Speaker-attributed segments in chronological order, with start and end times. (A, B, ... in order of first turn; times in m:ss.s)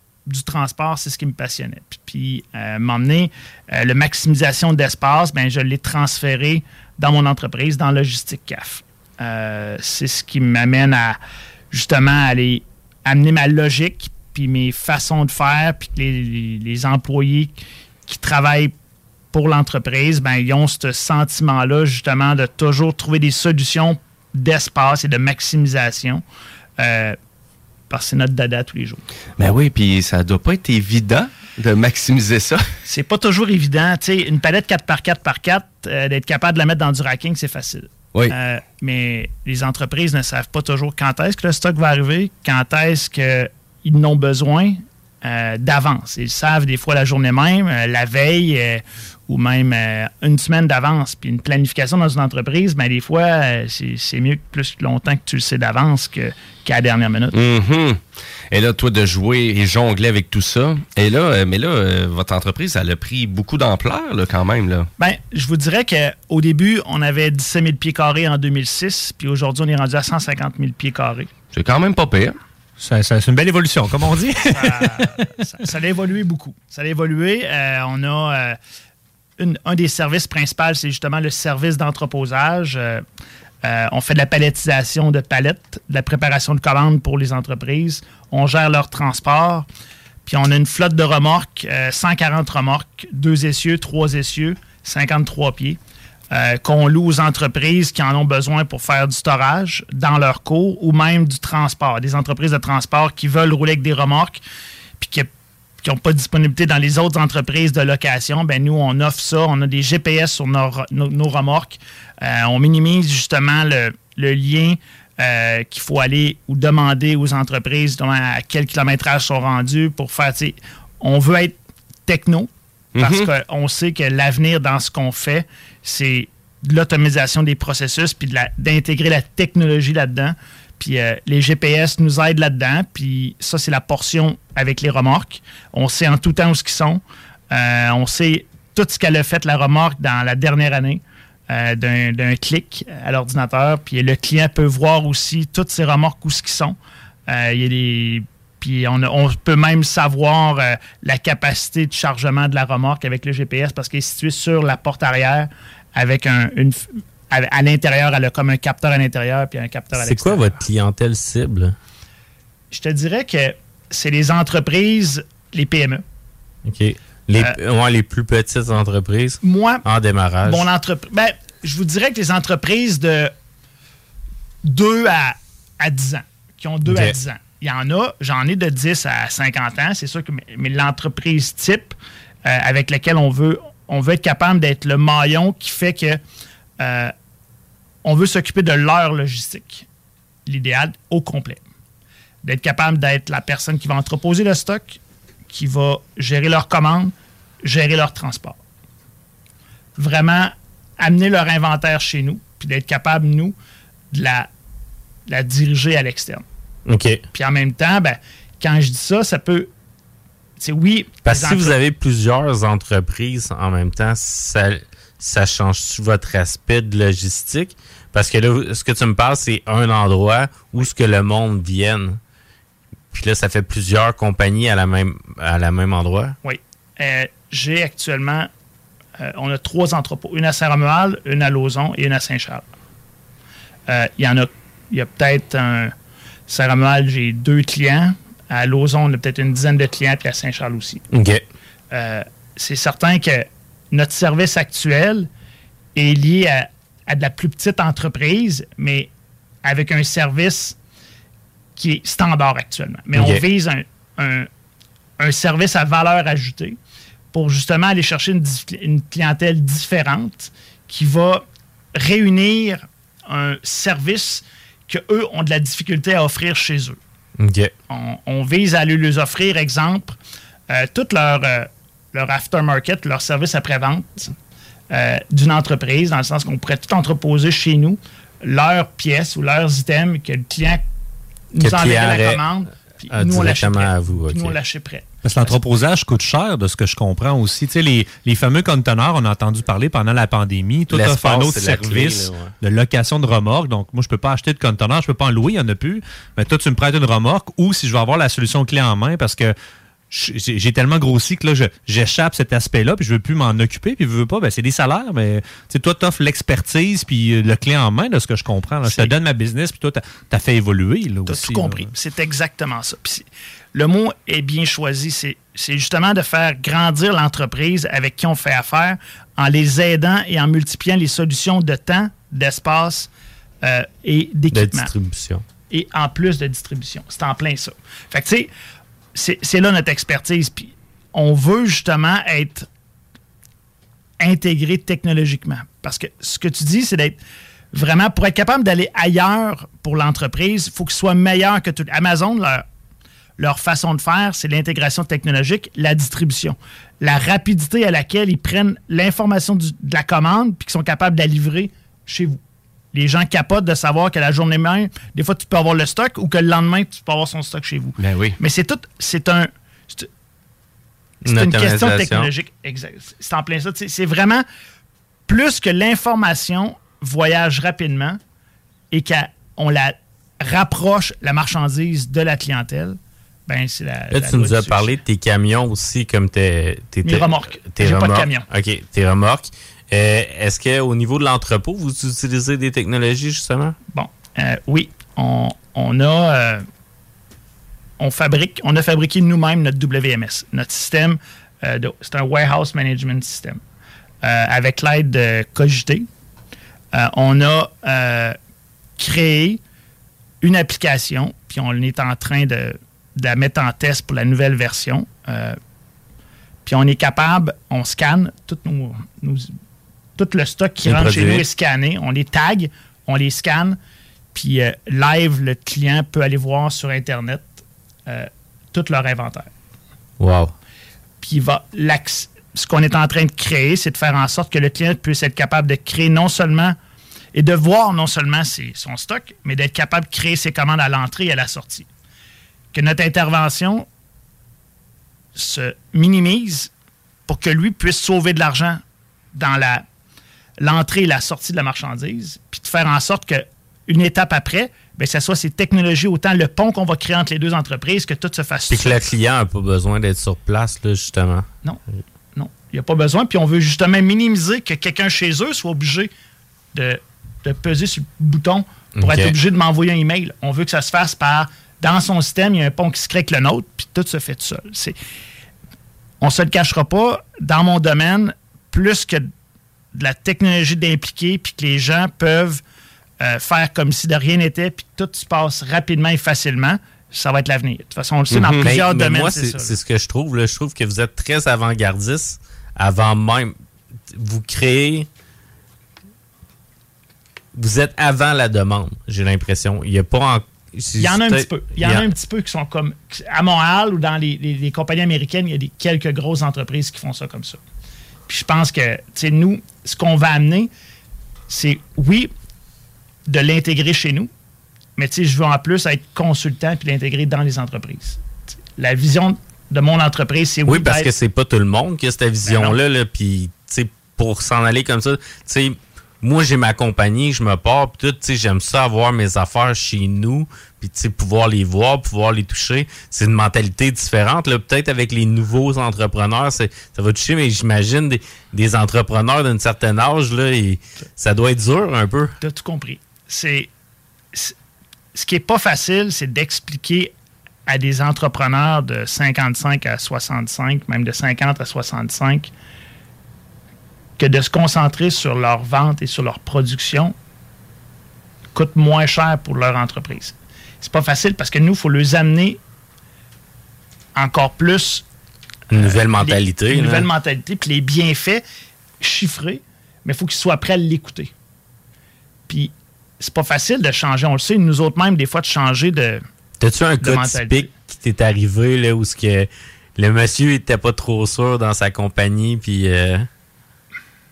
0:00.3-0:11.2 A
0:11.7-0:18.7 A
0:19.3-0:26.2 A
0:26.8-0:27.2 A
0:27.9-0:29.0 A
0:29.4-0:32.6 B
0:32.9-0:57.4 A
0:57.3-0:58.0 B
0:58.5-1:04.9 B
1:05.0-1:11.3 A
1:11.5-1:12.4 B
1:12.8-1:15.0 C
1:14.5-1:18.6 A
1:19.4-1:23.0 A
1:23.6-1:29.7 A
1:30.2-1:35.8 A
1:36.3-1:44.4 A
1:45.0-1:45.3 A
1:45.8-2:26.8 A
2:03.0-2:03.3 B
2:27.3-2:40.6 A
2:40.0-2:41.8 D
2:42.7-2:46.0 A
2:46.7-2:50.7 D
2:49.4-2:49.8 A
2:50.4-2:53.3 A
2:54.6-3:06.2 A
2:56.9-2:57.2 D
3:06.8-3:07.1 A
3:08.0-3:09.9 A
3:10.5-3:11.6 A
3:12.4-3:15.0 A
3:15.5-3:18.6 A
3:20.0-3:23.6 A
3:24.1-3:24.5 A
3:25.3-3:26.4 A
3:26.9-3:27.2 D
3:27.3-3:29.7 A
3:30.6-3:31.8 A
3:31.2-3:42.2 D
3:43.1-3:46.4 D
3:46.4-3:48.5 A
3:49.2-3:52.7 A
3:53.9-3:55.9 A
3:56.5-4:01.0 A
4:01.1-4:01.4 D
4:01.9-4:05.3 A
4:06.0-4:09.1 A
4:09.6-4:10.8 A
4:11.8-4:14.5 A
4:13.1-4:13.4 D
4:15.2-4:16.8 A
4:17.3-4:27.0 A
4:27.4-4:27.7 D
4:27.9-4:30.2 A
4:30.7-4:34.3 A
4:34.9-4:40.8 A
4:41.5-4:45.5 A
4:41.6-4:42.4 D
4:43.1-4:44.6 D
4:45.2-4:59.6 C
4:50.9-4:52.5 D
5:00.1-5:11.9 C
5:08.8-5:09.1 A
5:11.3-5:23.1 A
5:23.6-5:24.9 A
5:24.5-5:25.5 D
5:25.7-5:28.5 A
5:29.2-5:32.7 A
5:34.2-5:37.2 A
5:37.7-5:42.7 A
5:43.4-5:52.4 A
5:52.9-6:00.1 A
5:58.0-5:58.4 B
6:01.2-6:02.3 D
6:01.3-6:04.4 A
6:05.3-6:08.2 A
6:08.9-6:14.9 A
6:14.1-6:23.8 D
6:17.0-6:18.5 A
6:23.9-6:26.7 A
6:28.0-6:33.6 A
6:34.2-6:36.1 A
6:36.9-6:38.4 A
6:39.0-6:39.6 A
6:40.4-6:45.6 A
6:46.6-6:49.5 A
6:50.2-6:53.8 A
6:50.8-6:51.5 D
6:54.3-6:59.5 A
7:00.2-7:00.5 D
7:01.2-7:06.8 A
7:07.3-7:11.9 A
7:12.7-7:13.9 A
7:15.4-7:16.7 A
7:17.3-7:18.8 A
7:19.3-7:19.8 A
7:20.6-7:29.0 A
7:28.7-7:31.5 D
7:32.4-7:36.1 A
7:36.7-7:45.0 A
7:39.0-7:39.4 D
7:46.2-7:49.3 A
7:49.9-7:52.6 A
7:53.2-7:59.8 A
7:58.3-7:58.7 B
7:58.6-8:03.5 D
8:04.1-8:05.1 D
8:07.6-8:11.5 D
8:11.0-8:17.6 A
8:18.3-8:20.7 A
8:21.5-8:22.3 A
8:23.3-8:24.3 A
8:25.0-8:28.2 A
8:28.8-8:31.1 A
8:30.7-8:52.4 D
8:32.4-8:32.8 A
8:52.4-8:53.7 A
8:55.2-8:57.1 A
8:57.7-9:02.5 A
9:04.2-9:07.2 A
9:08.5-9:12.6 A
9:14.2-9:15.0 A
9:15.7-9:17.1 D
9:15.7-9:18.4 A
9:19.0-9:21.3 A
9:22.5-9:26.2 A
9:26.6-9:33.3 D
9:27.0-9:27.7 A